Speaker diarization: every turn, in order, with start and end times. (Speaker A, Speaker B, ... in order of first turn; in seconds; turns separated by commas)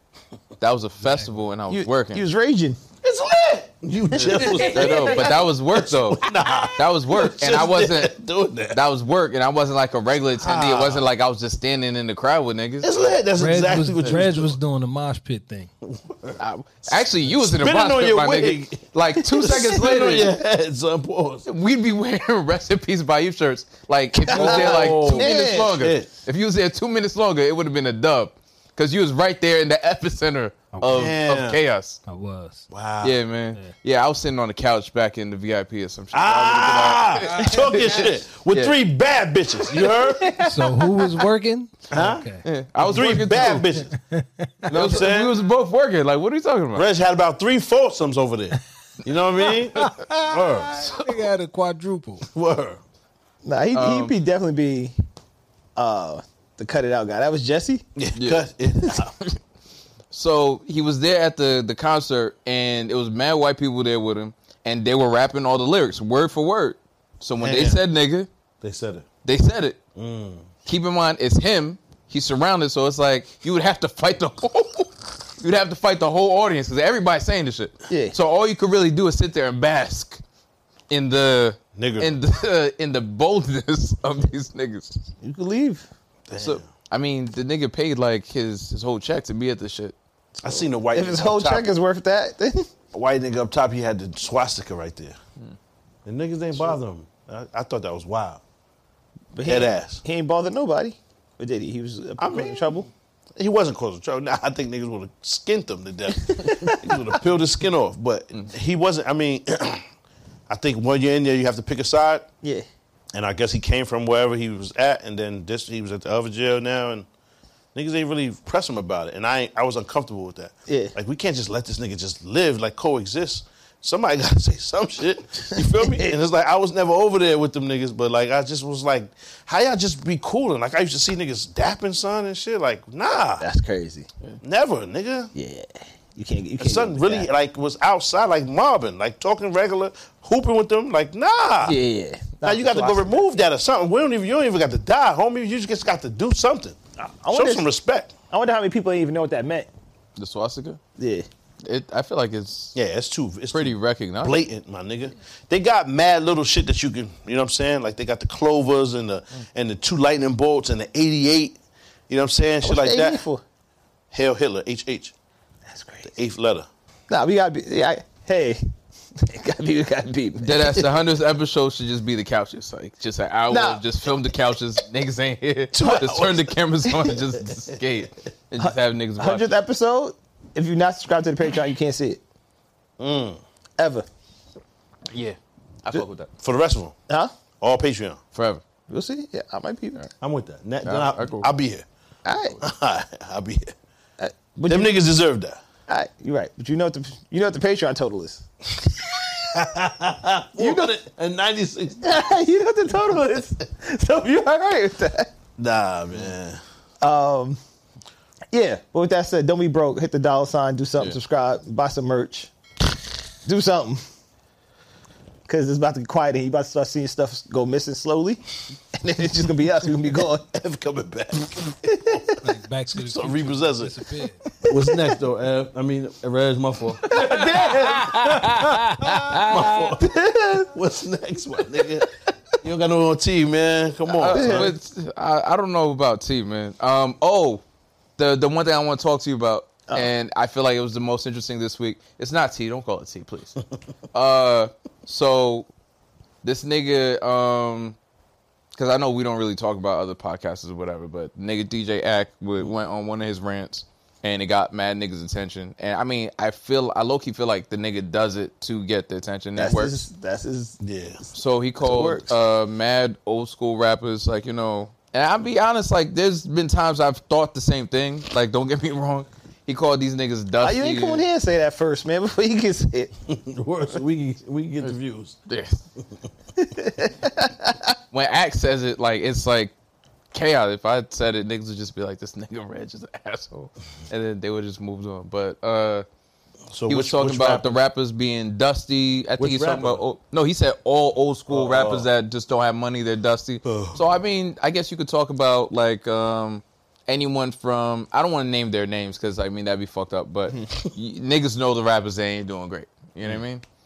Speaker A: 0.6-2.2, Speaker B: 1.7-2.8, Speaker C: 3.0-8.8, Speaker A: 4.1-8.2, Speaker A: 8.7-13.1, Speaker C: 10.4-11.1, Speaker C: 12.8-14.6, Speaker D: 13.3-15.7, Speaker C: 15.8-16.4, Speaker A: 16.4-20.4, Speaker C: 16.9-18.8, Speaker C: 19.4-21.5, Speaker A: 21.5-32.0, Speaker B: 24.3-25.8, Speaker C: 24.3-26.1, Speaker D: 30.8-31.1, Speaker C: 30.9-31.6, Speaker D: 32.1-32.7, Speaker C: 32.7-33.2, Speaker A: 33.0-38.8, Speaker C: 36.1-40.4, Speaker D: 37.3-38.0, Speaker D: 40.3-44.9, Speaker C: 41.9-42.3, Speaker A: 42.4-43.7, Speaker C: 42.8-43.9, Speaker C: 44.7-45.3, Speaker A: 44.7-46.9, Speaker C: 46.8-50.9, Speaker D: 49.5-52.3, Speaker C: 52.3-52.8, Speaker B: 53.4-54.9, Speaker A: 53.7-54.1, Speaker B: 55.8-57.9, Speaker C: 58.0-59.1, Speaker A: 58.2-58.4, Speaker A: 60.1-68.3, Speaker C: 67.4-67.8, Speaker C: 68.6-69.1, Speaker A: 69.2-69.8, Speaker C: 70.0-70.5, Speaker A: 70.7-80.2, Speaker B: 77.9-78.2, Speaker A: 80.9-85.1, Speaker C: 81.8-82.1, Speaker B: 85.2-85.9, Speaker C: 86.3-86.6, Speaker A: 86.3-90.0, Speaker C: 90.4-91.7, Speaker B: 90.5-92.7, Speaker C: 92.9-95.2, Speaker C: 96.1-98.4, Speaker B: 99.3-102.9, Speaker C: 99.5-100.0, Speaker C: 102.2-102.8, Speaker C: 103.4-109.8, Speaker B: 106.4-107.0, Speaker C: 110.5-112.3, Speaker C: 113.1-117.1, Speaker C: 117.8-133.4, Speaker B: 120.7-121.0, Speaker B: 125.6-126.1, Speaker B: 133.4-134.1, Speaker C: 134.4-135.3, Speaker B: 135.3-137.3, Speaker C: 136.6-141.8, Speaker B: 141.6-143.3, Speaker C: 142.4-146.8, Speaker B: 147.0-147.7, Speaker C: 147.3-148.1, Speaker B: 148.3-149.7, Speaker A: 150.2-150.8, Speaker B: 151.0-151.3, Speaker A: 151.6-152.8, Speaker C: 152.8-161.6, Speaker A: 153.5-154.4, Speaker C: 162.1-163.2, Speaker B: 162.6-163.4, Speaker C: 164.1-165.1, Speaker B: 165.7-166.1, Speaker C: 166.1-166.7, Speaker B: 167.1-168.6, Speaker B: 169.2-170.9, Speaker A: 170.4-179.5, Speaker B: 173.5-173.8, Speaker C: 175.7-176.5, Speaker B: 178.6-182.2, Speaker C: 183.0-183.4, Speaker B: 183.8-184.1, Speaker A: 185.1-186.3, Speaker C: 186.4-186.9, Speaker C: 187.6-188.2, Speaker A: 188.3-188.6, Speaker B: 188.9-190.0, Speaker C: 190.2-191.8, Speaker A: 190.8-191.5, Speaker B: 192.2-192.6, Speaker C: 192.6-193.7, Speaker B: 194.2-195.0, Speaker C: 194.7-195.6, Speaker B: 195.9-199.2, Speaker C: 199.5-202.0, Speaker B: 200.6-200.9, Speaker B: 202.0-205.3, Speaker C: 205.6-206.6, Speaker B: 207.0-207.6, Speaker B: 208.5-212.5, Speaker B: 213.4-214.0, Speaker B: 215.5-218.4, Speaker B: 218.9-220.5, Speaker C: 220.5-221.9, Speaker B: 221.9-222.3, Speaker D: 222.4-224.5, Speaker C: 222.9-224.0, Speaker C: 224.7-230.1, Speaker B: 227.1-228.1, Speaker B: 230.0-230.7, Speaker C: 230.6-232.1, Speaker C: 232.6-234.7, Speaker A: 234.1-237.6, Speaker B: 234.3-234.7, Speaker A: 238.2-243.6, Speaker A: 244.1-245.7, Speaker A: 246.4-248.0, Speaker A: 248.8-260.0, Speaker B: 259.6-260.8, Speaker C: 260.8-261.2, Speaker A: 261.3-271.2, Speaker B: 261.8-262.3, Speaker B: 270.6-273.1, Speaker C: 273.3-275.4, Speaker A: 275.5-275.8, Speaker B: 276.6-277.9, Speaker A: 278.1-279.7, Speaker A: 280.3-286.1, Speaker C: 286.7-287.7, Speaker A: 286.9-303.6, Speaker C: 289.4-290.0, Speaker C: 291.5-292.1, Speaker C: 293.7-294.0